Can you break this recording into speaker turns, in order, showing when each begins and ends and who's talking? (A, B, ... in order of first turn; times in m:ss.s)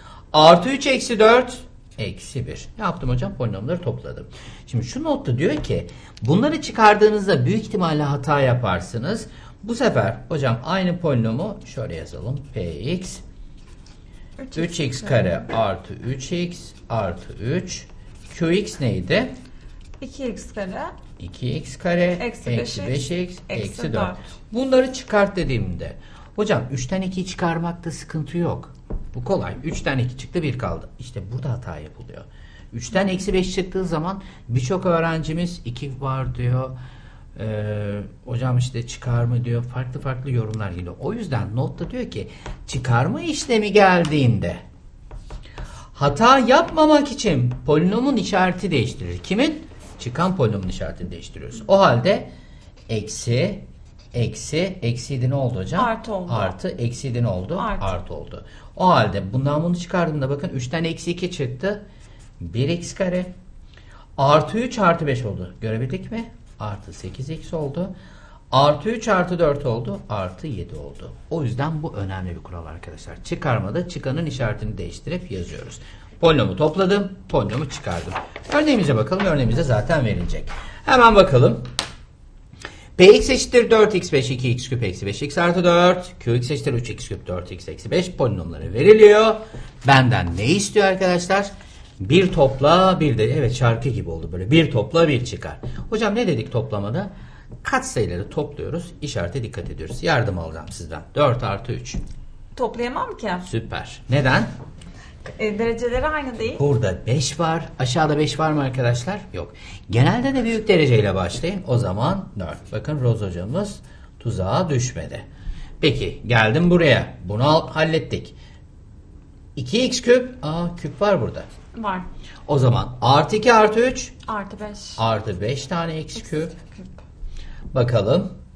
0:00.3-0:13.2 A
0:14.4-0:15.4 B
0:14.5-0:19.3 A
0:20.0-0:20.9 B
0:21.2-0:36.8 A
0:22.2-0:24.2 B
0:37.4-0:44.6 A
0:45.9-0:52.3 A
0:52.9-1:01.8 A
0:55.8-0:56.5 B
0:57.6-0:57.9 B
1:02.4-1:03.3 A
1:04.2-1:07.9 A
1:08.5-1:21.7 A
1:23.0-1:37.1 A
1:37.6-1:42.0 A
1:42.5-1:43.4 B
1:43.4-1:44.5 A
1:45.2-1:46.6 B
1:46.5-1:55.2 A
1:55.8-1:58.3 A
1:59.6-2:01.5 A
2:01.7-2:02.1 B
2:02.5-2:04.2 A
2:04.2-2:05.0 B
2:05.0-2:06.6 A
2:07.7-2:08.3 A